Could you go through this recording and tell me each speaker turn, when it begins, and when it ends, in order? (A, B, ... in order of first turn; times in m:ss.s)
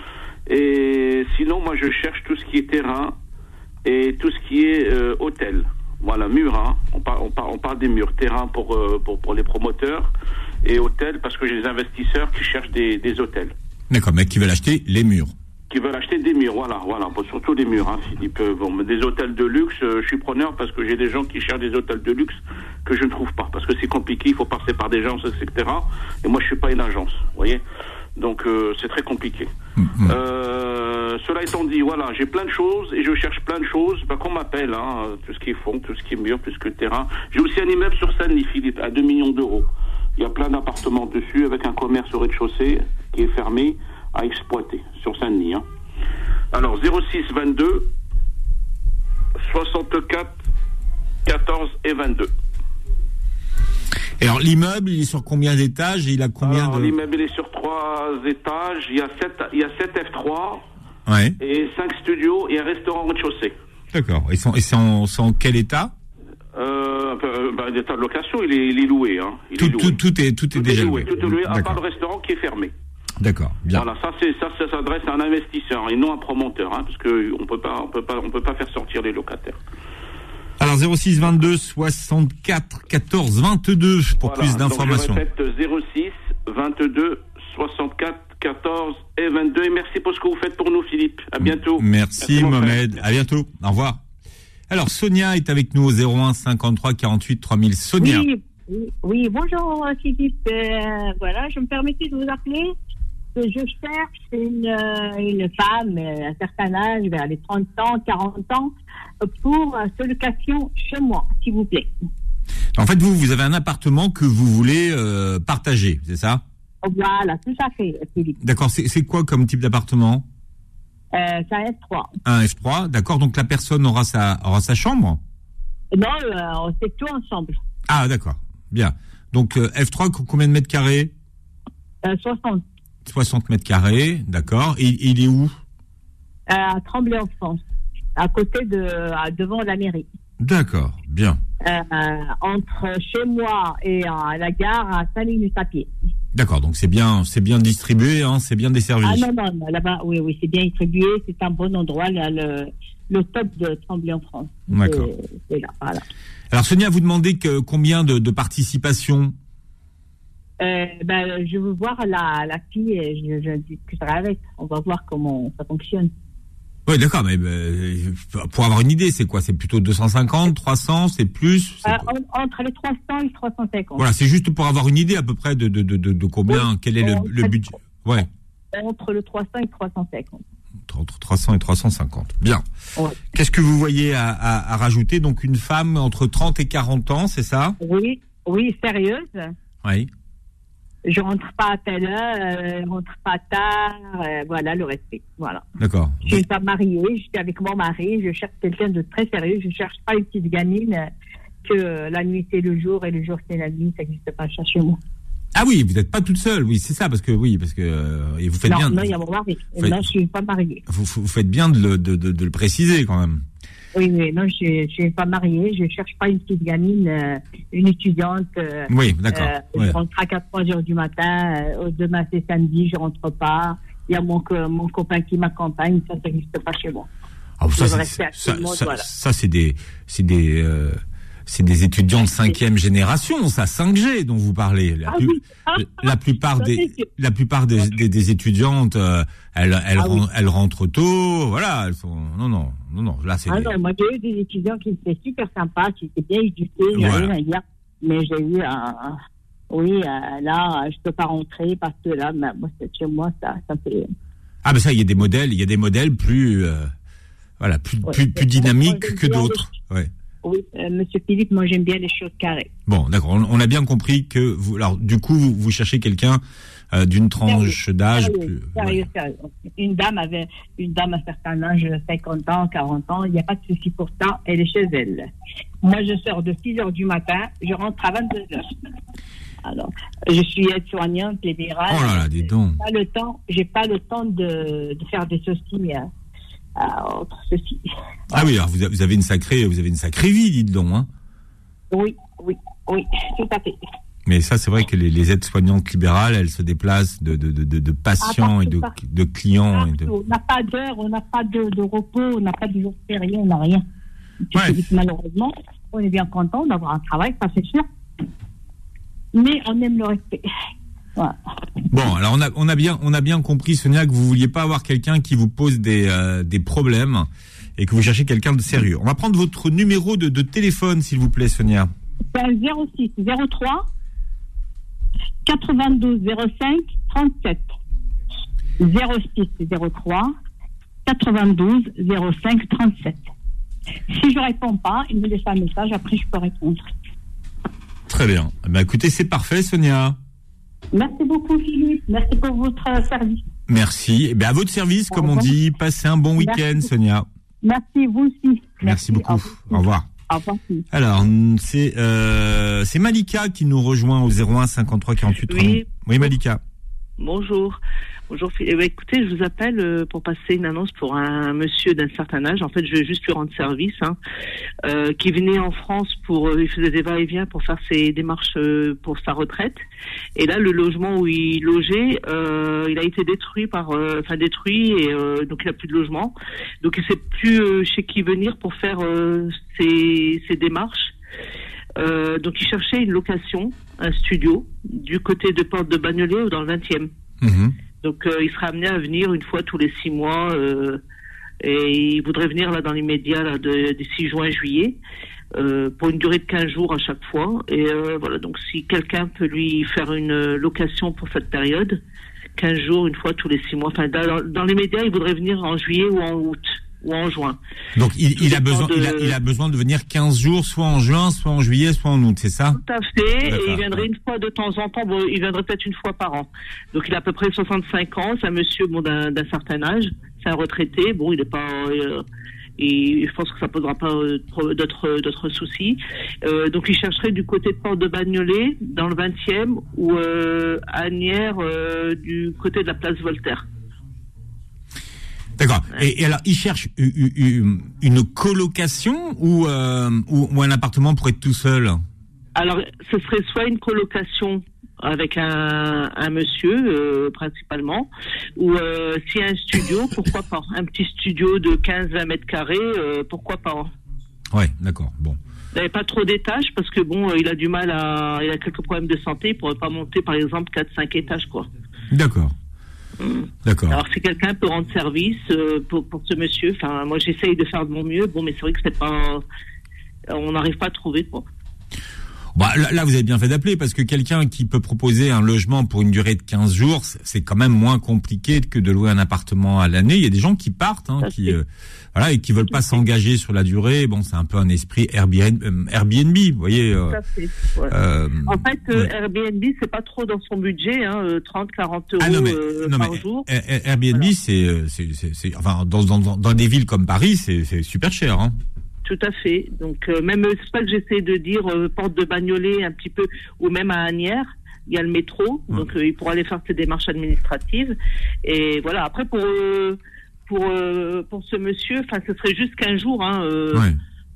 0:00.5-0:03.2 A
0:03.8-0:10.1 A
0:10.6-0:13.5 A
0:13.9-0:15.3 B
0:15.7-0:27.6 A
0:28.2-0:45.6 A
0:29.8-0:30.1 B
0:46.5-0:47.9 A
0:49.4-0:50.4 A
0:51.2-0:52.3 A
0:54.2-0:57.0 B
0:56.4-1:00.6 A
1:01.1-1:01.4 B
1:01.4-1:03.6 A
1:03.9-1:05.9 B
1:06.5-1:10.0 A
1:09.6-1:11.8 B
1:10.5-1:12.7 A
1:13.2-1:13.9 B
1:13.7-1:19.6 A
1:20.6-1:25.2 B
1:24.2-1:33.0 A
1:31.4-1:34.0 B
1:34.7-1:38.2 B
1:38.0-1:42.7 C
1:43.4-1:51.9 C
1:52.8-1:56.4 B
1:56.8-1:58.3 C
1:58.4-2:00.2 B
2:01.1-2:02.1 C
2:02.2-2:05.2 B
2:05.9-2:07.6 C
2:07.9-2:11.1 B
2:12.0-2:12.6 C
2:13.1-2:15.5 B
2:16.5-2:17.6 C
2:18.2-2:20.0 C
2:20.4-2:21.4 B
2:21.6-2:25.9 C
2:26.3-2:29.2 B
2:29.0-2:36.0 C
2:34.7-2:35.1 B
2:36.5-2:39.3 B
2:40.6-2:46.1 C
2:46.8-2:52.0 B
2:51.8-2:54.1 C
2:54.0-2:58.3 B
2:56.5-2:57.7 C
2:58.7-3:00.4 C
3:00.9-3:02.6 B
3:03.3-3:07.8 B
3:07.8-3:09.5 C
3:09.8-3:10.1 B
3:11.0-3:15.6 C
3:15.8-3:16.4 B
3:16.2-3:21.1 C
3:21.6-3:25.0 C
3:25.5-3:29.1 B
3:28.6-3:30.8 C
3:29.8-3:30.0 B
3:30.9-3:33.4 B
3:33.9-3:47.1 C
3:38.9-3:40.0 B
3:47.6-4:03.7 B
3:47.7-3:49.1 C
3:55.1-3:57.0 C
4:00.0-4:00.2 C
4:03.5-4:09.2 C
4:06.9-4:07.3 B
4:09.7-4:14.1 C
4:14.6-4:16.9 B
4:17.6-4:20.1 B
4:18.0-4:19.7 C
4:20.4-4:22.7 C
4:22.9-4:29.1 B
4:27.4-4:35.3 C
4:35.8-4:38.6 C
4:39.6-4:46.1 C
4:41.9-4:42.8 B
4:46.8-4:48.5 C
4:48.3-4:51.1 B
4:51.9-4:53.8 C
4:54.2-5:00.1 B
4:58.2-4:59.0 C
4:59.7-5:03.8 C
5:04.5-5:07.8 C
5:09.3-5:10.4 C
5:11.9-5:21.9 B
5:22.3-5:23.9 C
5:25.4-5:27.7 C
5:28.8-5:30.3 C
5:31.0-5:33.3 C
5:34.1-5:36.8 C
5:38.1-5:40.2 B
5:40.9-5:43.4 C
5:43.7-5:47.2 B
5:45.1-5:45.6 C
5:46.4-5:46.9 C
5:47.6-5:50.8 C
5:48.8-5:50.1 B
5:50.9-5:56.6 B
5:55.5-5:55.9 D
5:57.2-6:04.2 D
6:04.8-6:09.8 D
6:10.4-6:21.1 D
6:22.0-6:27.1 D
6:27.4-6:27.7 B
6:28.0-6:31.0 D
6:31.6-6:35.0 D
6:35.5-6:42.0 D
6:42.6-6:47.6 D
6:48.0-6:52.8 B
6:48.4-6:49.4 D
6:52.7-7:02.2 D
6:53.4-6:54.1 B
7:02.8-7:13.6 D
7:15.6-7:22.0 B
7:22.5-7:33.9 D
7:34.5-7:35.4 B
7:35.7-7:41.7 D
7:42.1-7:42.5 B
7:43.2-7:49.4 D
7:43.6-7:44.0 B
7:50.3-7:51.4 D
7:52.5-8:07.2 B
8:01.2-8:01.6 D
8:02.7-8:03.0 D
8:07.1-8:07.9 D
8:07.9-8:09.1 B
8:08.4-8:13.5 D
8:12.2-8:18.6 B
8:19.0-8:33.9 D